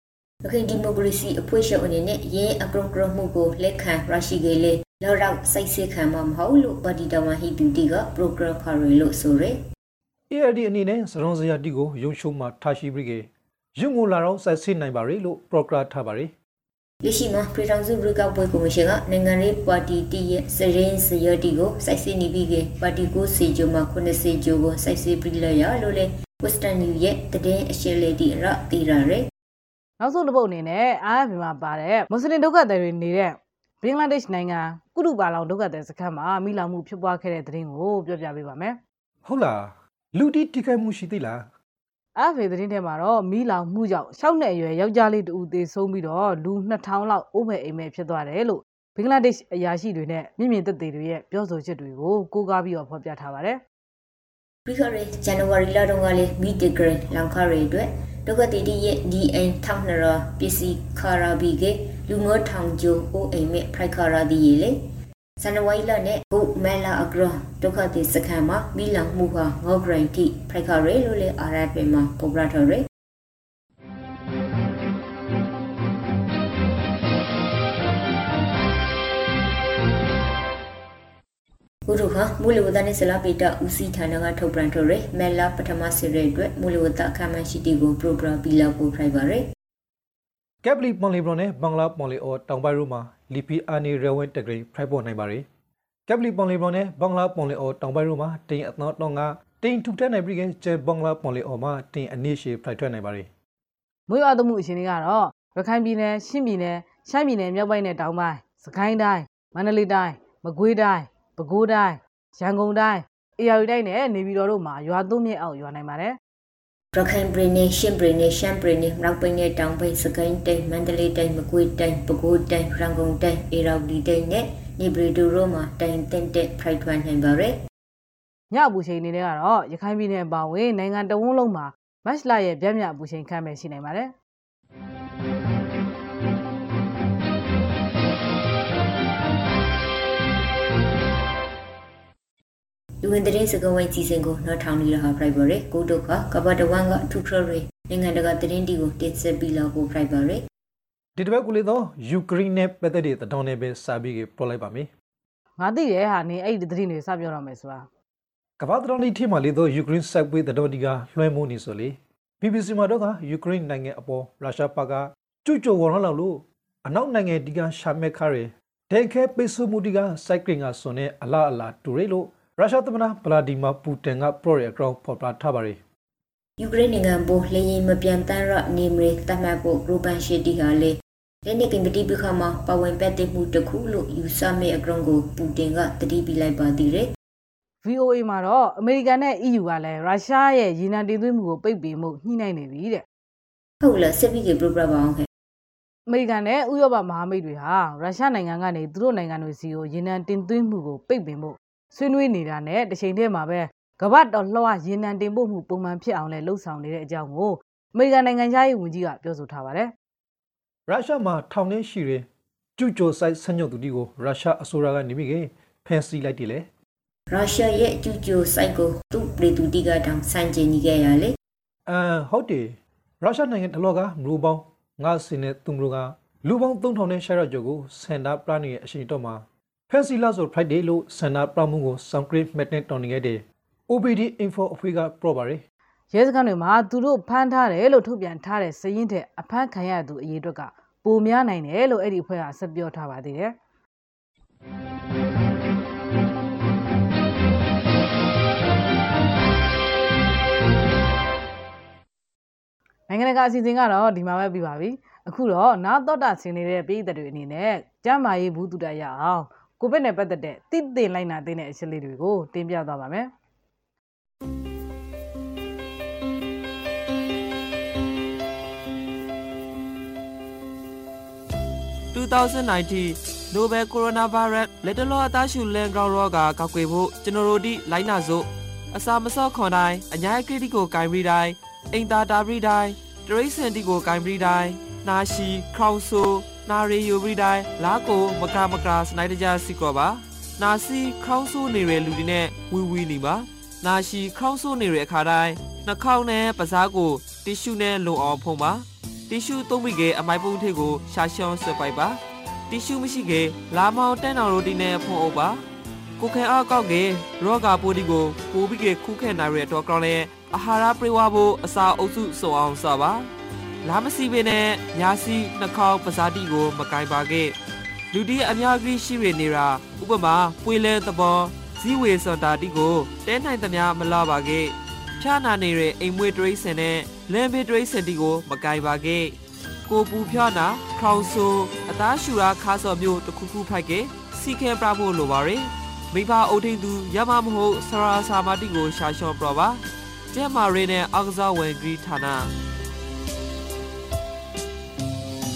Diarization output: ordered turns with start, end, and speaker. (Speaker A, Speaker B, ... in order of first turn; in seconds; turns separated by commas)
Speaker A: 0.4-9.6, Speaker B: 10.3-16.3, Speaker A: 17.0-29.2, Speaker C: 30.0-38.8, Speaker B: 39.2-41.5, Speaker C: 42.1-53.6, Speaker A: 54.7-64.8, Speaker A: 65.4-72.8, Speaker A: 81.9-89.4, Speaker B: 90.6-95.4, Speaker B: 96.1-103.3, Speaker C: 104.1-116.2, Speaker A: 116.9-127.5, Speaker C: 128.5-134.1, Speaker A: 143.0-150.4, Speaker B: 151.2-154.9, Speaker C: 155.6-157.9, Speaker B: 158.6-175.8, Speaker A: 176.6-187.1, Speaker C: 187.8-193.0, Speaker A: 193.8-195.3, Speaker C: 196.1-209.9, Speaker B: 210.9-212.2, Speaker B: 212.8-216.7, Speaker A: 217.3-221.3, Speaker B: 221.9-235.6, Speaker C: 236.1-243.5, Speaker C: 253.1-263.3, Speaker D: 272.1-305.6, Speaker D: 306.2-313.3, Speaker D: 313.8-317.5, Speaker D: 318.1-329.4, Speaker D: 329.9-339.8, Speaker D: 340.3-342.5